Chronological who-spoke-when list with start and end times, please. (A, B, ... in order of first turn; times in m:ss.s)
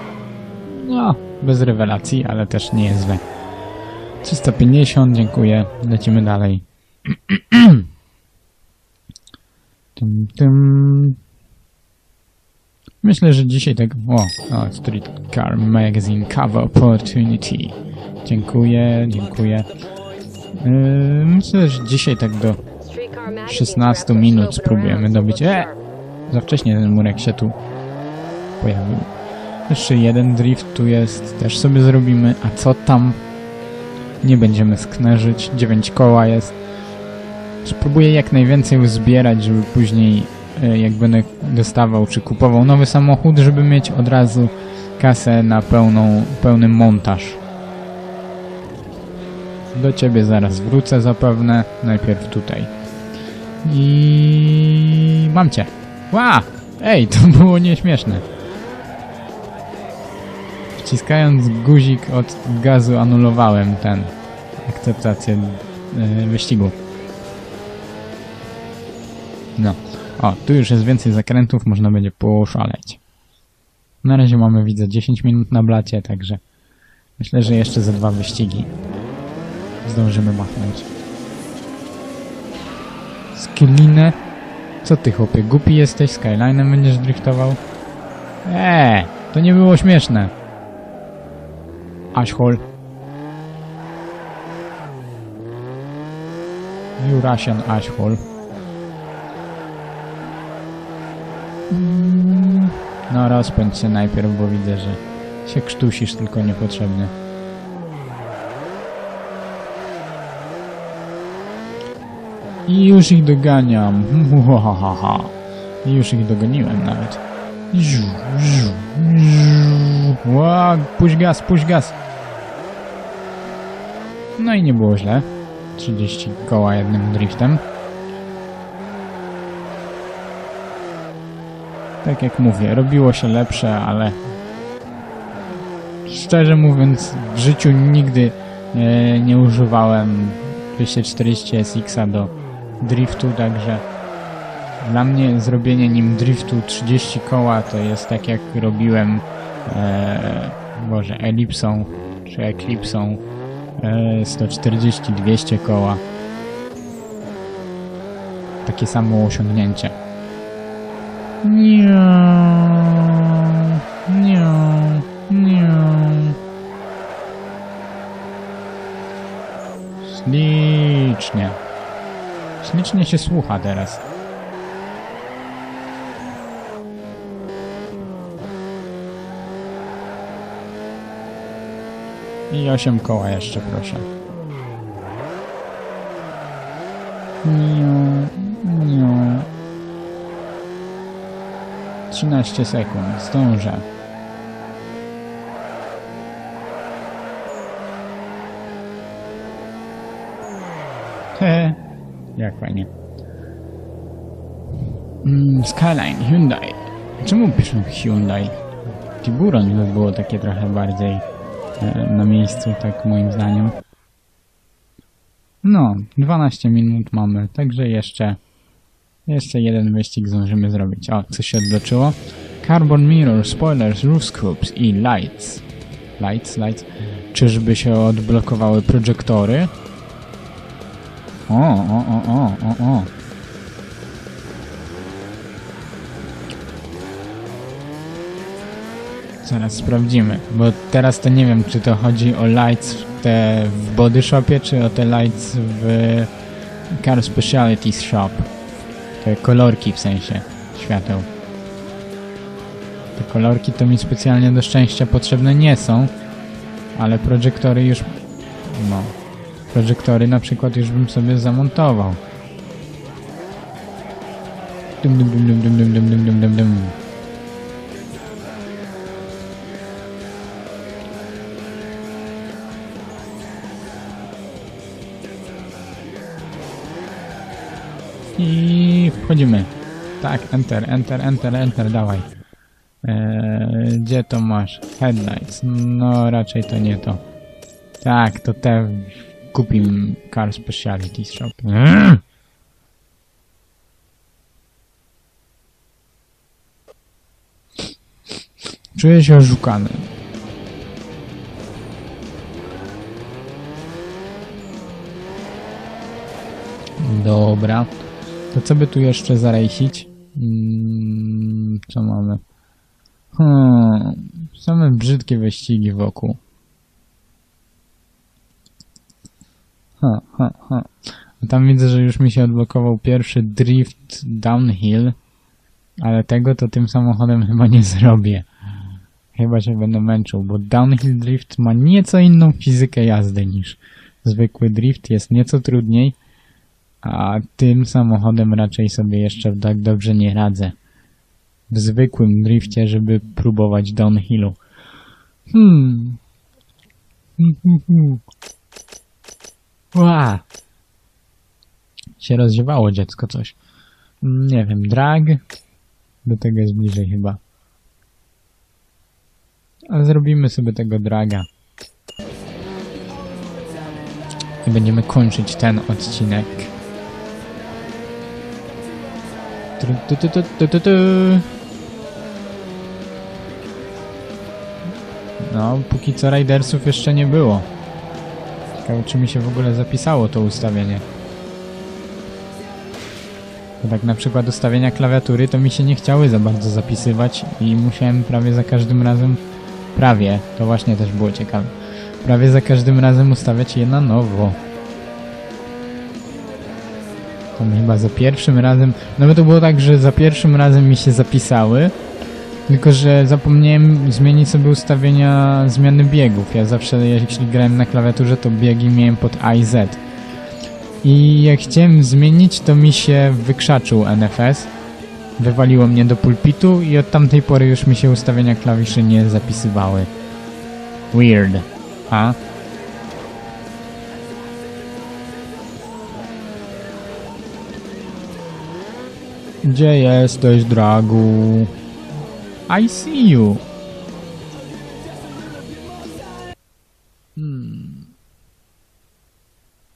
0:00.7-0:03.2 A
0:04.2-0:07.9 A
0:10.0-0:11.2 A
0:13.0-0:19.7 A
0:20.5-0:22.6 A
0:23.3-0:25.7 A
0:26.3-0:27.6 A
0:28.6-0:29.1 A
0:29.7-0:33.2 A
0:34.2-0:36.5 A
0:37.6-0:47.4 A
0:49.7-0:52.7 A
0:53.6-0:58.2 A
1:00.8-1:06.8 A
1:09.6-1:13.0 A
1:14.0-1:16.4 A
1:17.2-1:18.7 A
1:19.8-1:20.9 A
1:23.4-1:24.2 A
1:24.8-1:27.6 A
1:28.4-1:30.3 A
1:32.1-1:32.6 A
1:37.0-1:38.2 A
1:41.7-1:47.1 A
1:52.7-2:02.0 A
2:04.4-2:07.6 A
2:12.0-2:14.2 A
2:16.1-2:23.8 A
2:24.8-2:33.2 A
2:33.8-2:36.0 A
2:38.6-2:40.0 A
2:41.4-2:46.4 A
2:50.0-2:51.6 A
2:52.6-2:54.0 A
3:02.5-3:04.1 A
3:07.4-3:09.5 A
3:12.1-3:13.9 A
3:21.4-3:21.8 A
3:22.4-3:22.9 A
3:25.2-3:28.6 A
3:29.2-3:31.2 A
3:31.8-3:33.8 A
3:35.6-3:38.4 A
3:39.3-3:45.6 A
3:46.2-3:49.7 A
3:51.5-3:53.1 A
3:59.4-4:06.3 A
4:06.9-4:08.5 A
4:09.2-4:11.3 A
4:13.2-4:16.1 A
4:17.0-4:19.2 A
4:19.7-4:22.2 A
4:25.0-4:27.0 A
4:38.4-4:42.3 A
4:43.0-4:47.2 A
4:48.0-4:52.2 A
4:59.0-5:00.1 A
5:07.0-5:07.9 A
5:08.5-5:12.4 A
5:13.3-5:16.4 A
5:20.0-5:25.2 A
5:26.0-5:28.5 A
5:29.3-5:36.2 A
5:37.0-5:40.8 A
5:41.7-5:44.6 A
5:45.5-5:46.2 A
5:47.4-5:48.2 A
5:49.9-5:50.4 A
5:52.2-5:53.6 A
5:54.2-5:55.4 A
5:56.2-5:57.4 A
5:59.9-6:01.5 A
6:04.6-6:06.7 A
6:09.8-6:11.5 A
6:15.4-6:17.7 A
6:18.8-6:21.1 A
6:23.8-6:29.4 A
6:30.0-6:34.6 A
6:37.6-6:42.0 A
6:42.7-6:50.0 A
6:51.0-6:54.7 A
6:55.4-7:00.1 A
7:01.1-7:02.4 A
7:09.6-7:11.7 A
7:12.7-7:13.6 A
7:17.4-7:18.1 A